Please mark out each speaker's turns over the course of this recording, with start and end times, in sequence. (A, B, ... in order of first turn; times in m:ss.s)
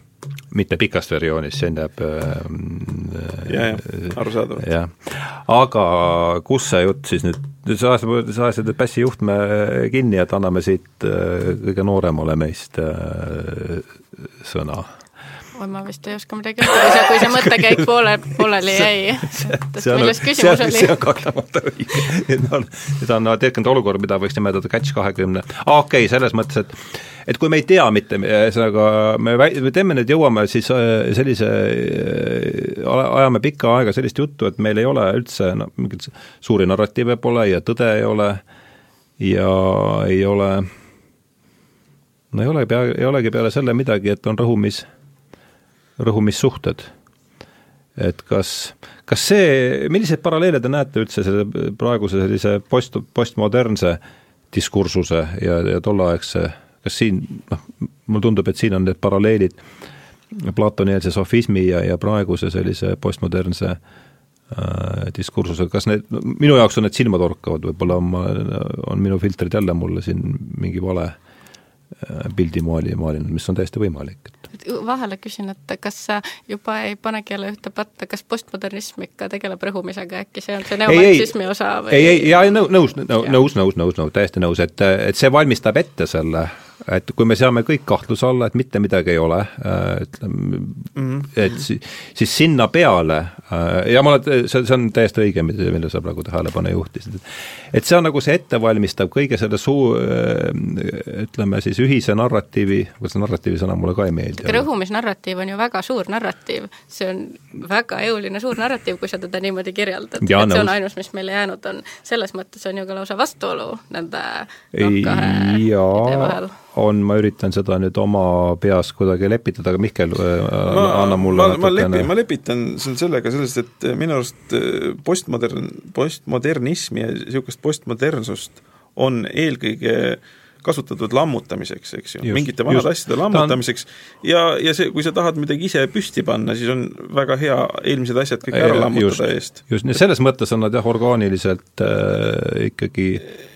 0:00.5-0:14.9 A
0:03.4-0:04.7 B
0:15.6-0:21.0 C
0:17.1-0:17.5 A
0:18.8-0:38.4 A
0:39.2-0:40.7 A
0:42.3-0:44.8 A
0:46.0-0:46.9 A
0:48.0-0:54.0 A
0:54.5-0:59.6 A
1:00.3-1:03.8 A
1:04.5-1:11.1 A
1:12.0-1:14.4 A
1:14.6-1:22.4 C
1:20.9-1:21.3 A
1:21.9-1:44.7 A
1:31.0-1:31.4 B
1:44.4-1:56.5 C
1:50.2-1:50.7 A
1:54.7-2:02.1 A
2:00.7-2:19.6 B
2:12.2-2:13.6 A
2:18.5-2:23.3 A